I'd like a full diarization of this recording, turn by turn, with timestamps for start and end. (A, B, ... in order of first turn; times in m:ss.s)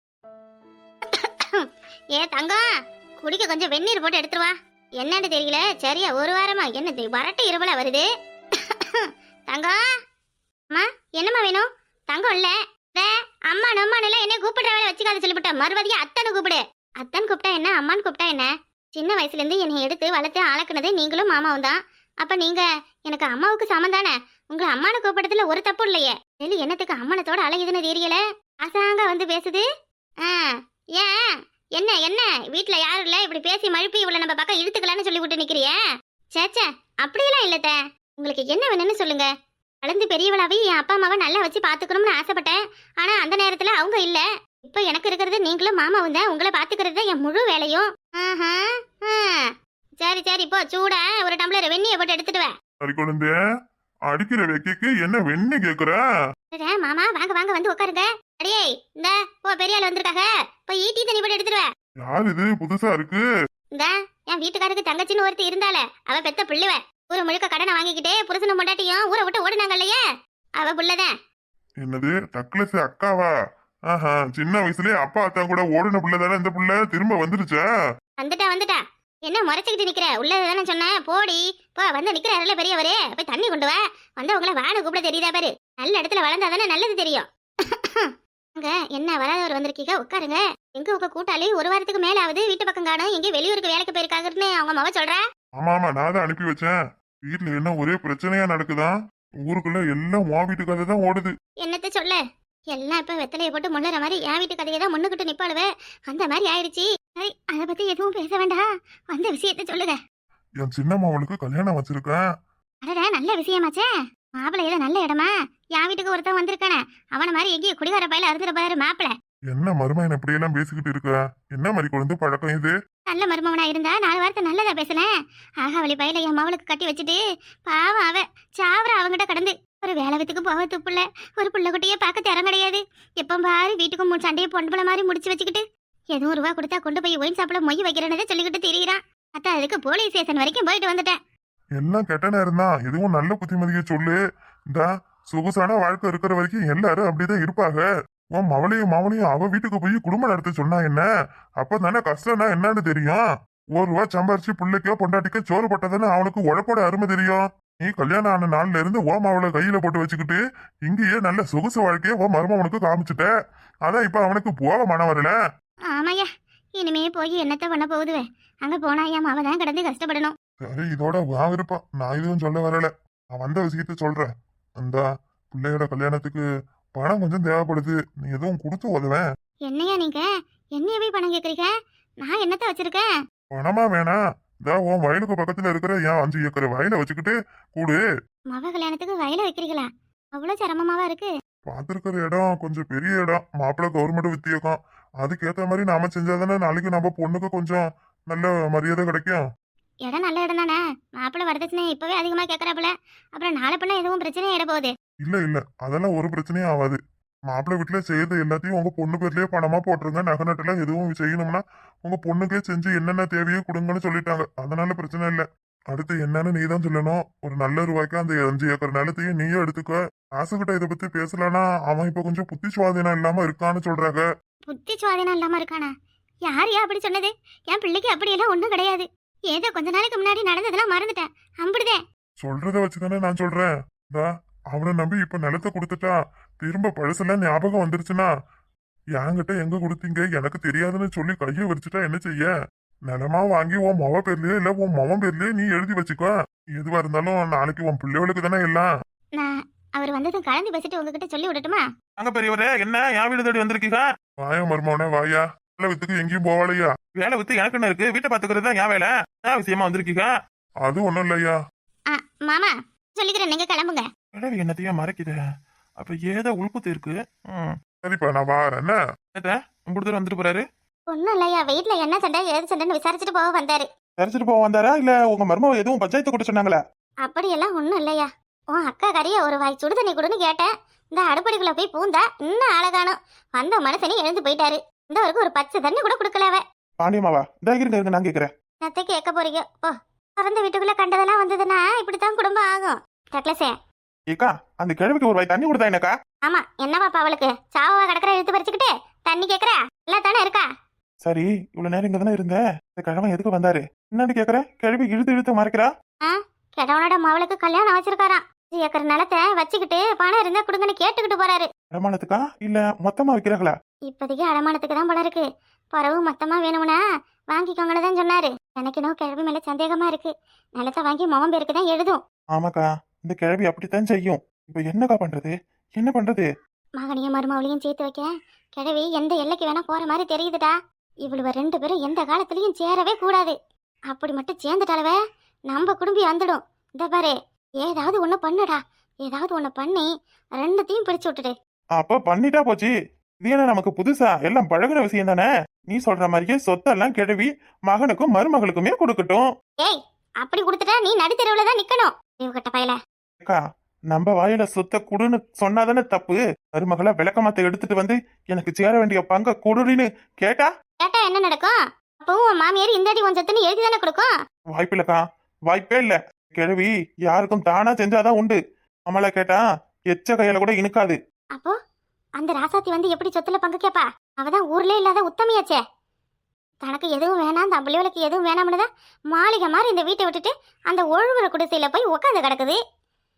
0:01.1-0:02.6 A
0:03.2-0:08.1 A
0:08.6-0:09.8 A
0:10.7-0:29.6 A
0:30.2-0:35.8 A
0:36.4-0:39.3 A
0:39.8-0:52.5 A
0:52.8-0:53.3 B
0:54.1-0:56.0 B
0:56.5-1:01.7 A
1:02.0-1:03.2 B
1:03.8-1:10.0 A
1:10.6-1:11.1 A
1:11.8-1:13.3 B
1:13.9-1:17.6 B
1:18.2-1:35.2 A
1:35.6-1:36.8 B
1:37.3-1:39.0 B
1:39.5-1:41.3 B
1:41.6-1:42.2 A
1:42.7-1:50.0 A
1:50.6-1:52.2 B
1:52.8-1:53.9 A
1:54.4-1:59.1 A
1:59.5-2:02.7 B
2:03.1-2:05.1 A
2:05.6-2:15.6 A
2:16.2-2:21.2 A
2:21.8-2:24.2 B
2:24.7-2:27.8 B
2:28.4-2:31.0 B
2:31.6-2:33.2 B
2:33.8-2:43.3 B
2:43.9-2:45.3 B
2:45.9-2:50.3 A
2:50.6-2:56.4 B
2:57.0-2:59.2 B
2:59.7-3:01.7 A
3:02.2-3:03.1 A
3:03.5-3:08.0 B
3:08.5-3:11.3 A
3:11.7-3:19.4 B
3:20.1-3:24.9 A
3:25.2-3:27.0 B
3:27.5-3:44.2 B
3:44.7-3:45.9 A
3:46.5-3:52.0 A
3:52.4-3:58.3 B
3:59.2-4:02.5 B
4:03.1-4:08.9 B
4:09.4-4:11.8 A
4:12.2-4:14.1 C
4:14.4-4:16.9 B
4:17.2-4:20.3 C
4:20.8-4:21.6 B
4:22.1-4:24.0 A
4:24.4-4:25.4 C
4:26.0-4:27.8 C
4:28.0-4:29.0 B
4:29.4-4:30.6 C
4:31.1-4:33.9 A
4:34.2-4:36.8 C
4:37.2-4:46.6 A
4:47.0-4:48.5 C
4:48.8-4:53.7 A
4:54.3-4:56.1 C
4:56.4-5:00.7 A
5:01.2-5:05.9 C
5:06.2-5:11.7 A
5:11.9-5:13.8 C
5:14.1-5:17.0 A
5:17.5-5:22.2 A
5:22.6-5:26.5 C
5:27.0-5:33.6 A
5:34.1-5:35.2 A
5:35.7-5:41.5 A
5:42.0-5:42.9 C
5:43.4-5:49.5 C
5:49.8-5:53.0 A
5:54.1-6:00.7 C
6:01.0-6:04.3 A
6:04.8-6:11.2 C
6:12.4-6:15.8 A
6:16.8-6:22.8 A